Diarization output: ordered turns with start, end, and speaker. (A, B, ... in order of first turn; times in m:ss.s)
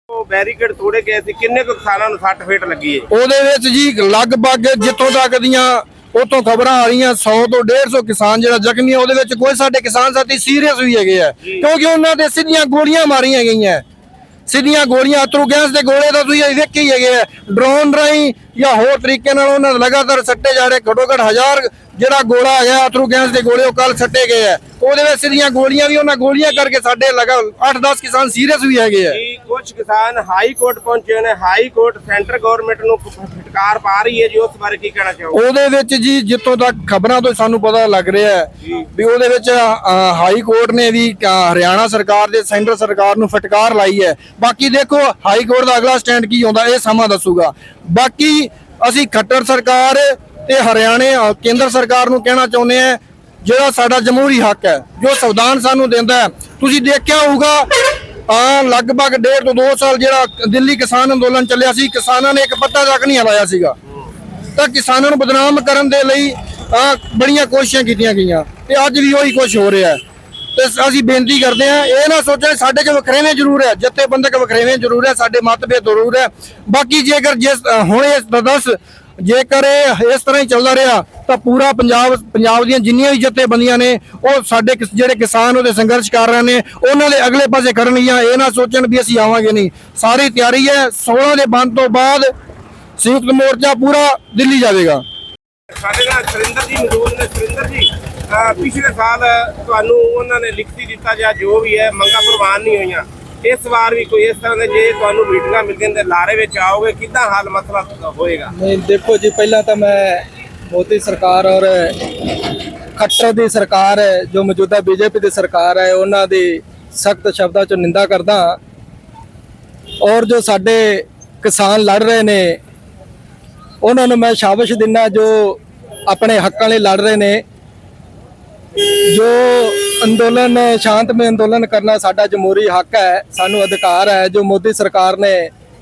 0:00.1-0:03.1 A
0:03.1-0:13.8 B
0:14.5-0:29.2 B
0:29.1-0:35.4 A
0:35.3-0:57.7 B
0:58.3-1:03.8 B
1:04.6-1:10.0 B
1:10.6-1:32.3 B
1:33.0-1:35.0 B
1:35.8-1:48.5 A
1:48.6-1:52.4 C
1:53.0-1:58.6 C
2:00.0-2:02.6 C
2:03.8-2:07.4 C
2:09.1-2:15.5 C